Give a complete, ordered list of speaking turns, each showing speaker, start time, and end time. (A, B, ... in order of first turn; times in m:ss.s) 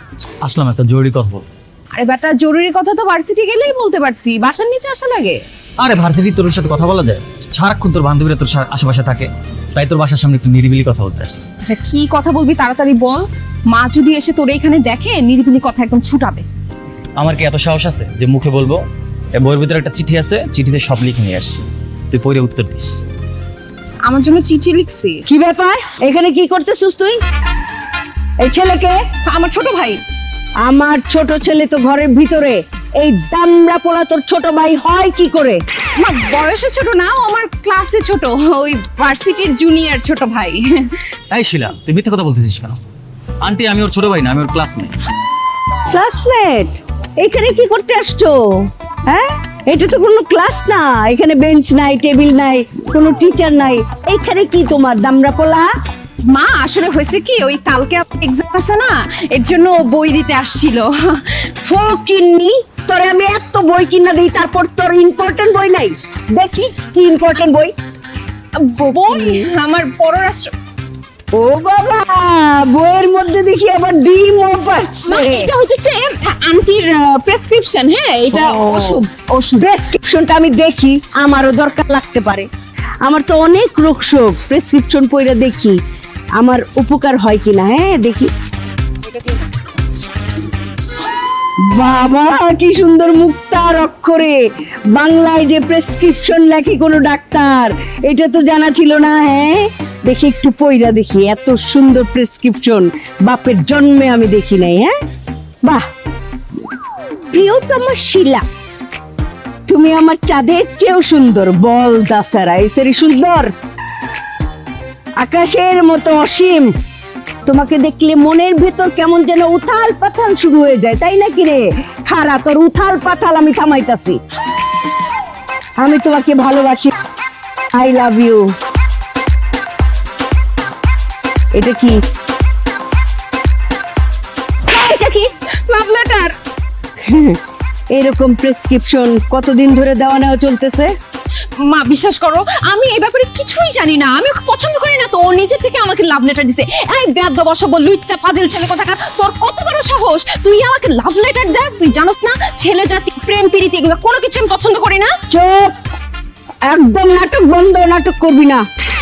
0:00.4-0:01.4 A
0:01.9-0:05.4 B
0:05.8-0:11.4 A
0:11.6-0:16.4 B
0:17.2-0:18.8 A
0:19.3-0:23.0 A
0:24.0-0:25.2 B
0:25.3-0:27.2 C
0:28.4-0:29.0 C
0:29.2-0:30.0 B
0:30.6-0:35.6 C
0:36.0-0:41.0 B
0:41.3-0:42.8 A
0:43.4-0:44.9 A
0:45.9-0:55.7 C
0:56.3-1:01.4 B
1:01.6-1:07.7 C
1:08.6-1:10.5 B
1:09.0-1:09.5 C
1:11.3-1:15.5 C
1:15.0-1:19.7 B
1:18.3-1:19.0 C
1:19.6-1:22.5 C
1:23.0-1:25.8 C
1:26.4-1:28.3 C
1:31.6-1:34.4 C
1:34.9-1:44.9 C
1:47.3-1:48.4 C
1:49.7-1:53.5 C
1:55.2-1:56.7 C
1:57.4-2:04.2 C
2:05.8-2:06.9 C
2:07.7-2:08.5 C
2:11.5-2:12.0 C
2:14.7-2:15.2 C
2:15.7-2:16.3 B
2:17.0-2:17.4 C
2:17.9-2:20.9 C
2:21.6-2:35.1 B
2:35.3-2:35.7 C
2:36.7-2:38.6 C